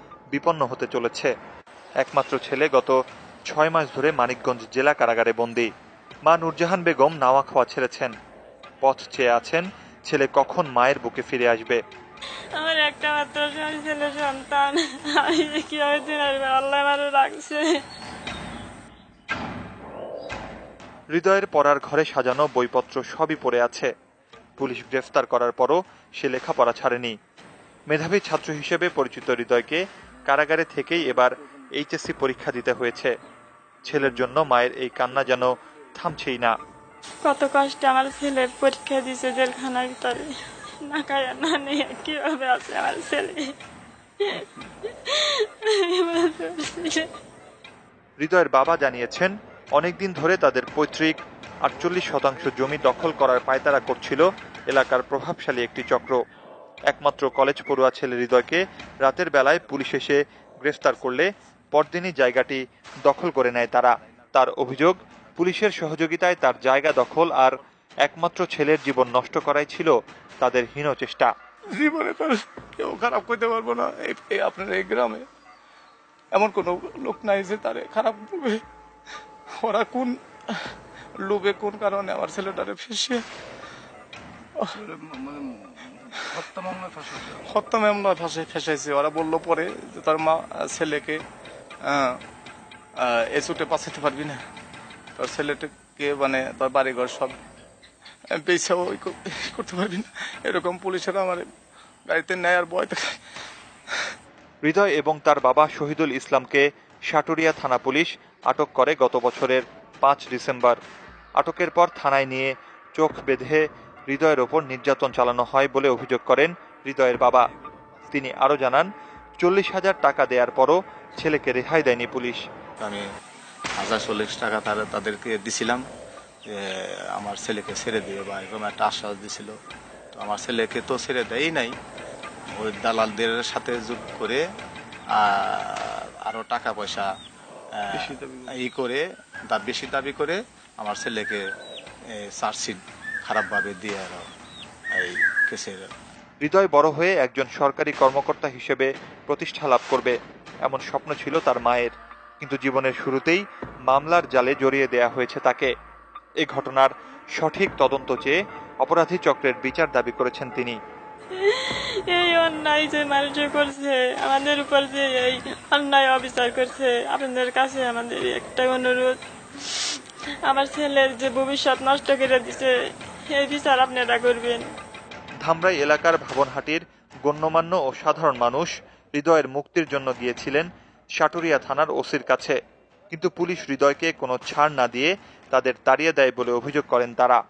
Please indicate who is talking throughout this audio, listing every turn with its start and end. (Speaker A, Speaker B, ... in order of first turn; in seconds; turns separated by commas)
Speaker A: 0.3-1.3, Speaker A: 2.0-2.9, Speaker A: 3.5-5.7, Speaker A: 6.2-8.1, Speaker A: 8.8-11.8, Speaker B: 12.6-17.8, Speaker A: 21.1-23.9, Speaker A: 24.6-27.1, Speaker A: 27.9-33.1, Speaker A: 33.8-36.5, Speaker B: 37.2-43.5, Speaker B: 44.2-47.1, Speaker A: 48.2-56.2, Speaker A: 56.9-71.3, Speaker C: 71.7-75.3, Speaker C: 76.3-78.6, Speaker C: 79.6-83.2, Speaker C: 86.2-91.2, Speaker C: 91.8-92.2, Speaker C: 93.0-94.4, Speaker C: 95.2-97.4, Speaker C: 98.3-101.5, Speaker C: 102.1-103.1, Speaker A: 104.6-110.8, Speaker A: 111.4-117.5, Speaker A: 118.1-118.9, Speaker A: 119.4-122.4, Speaker D: 123.8-125.8, Speaker D: 127.2-129.5, Speaker D: 130.2-131.7, Speaker D: 132.5-134.4, Speaker D: 135.2-137.1, Speaker D: 137.8-141.4, Speaker C: 138.0-138.6, Speaker D: 142.4-144.2, Speaker D: 144.9-145.9, Speaker A: 146.4-155.7, Speaker A: 156.4-160.8, Speaker B: 161.3-169.9, Speaker B: 170.4-172.7, Speaker B: 173.3-174.7, Speaker A: 175.4-180.7, Speaker A: 181.2-182.6, Speaker A: 183.1-187.4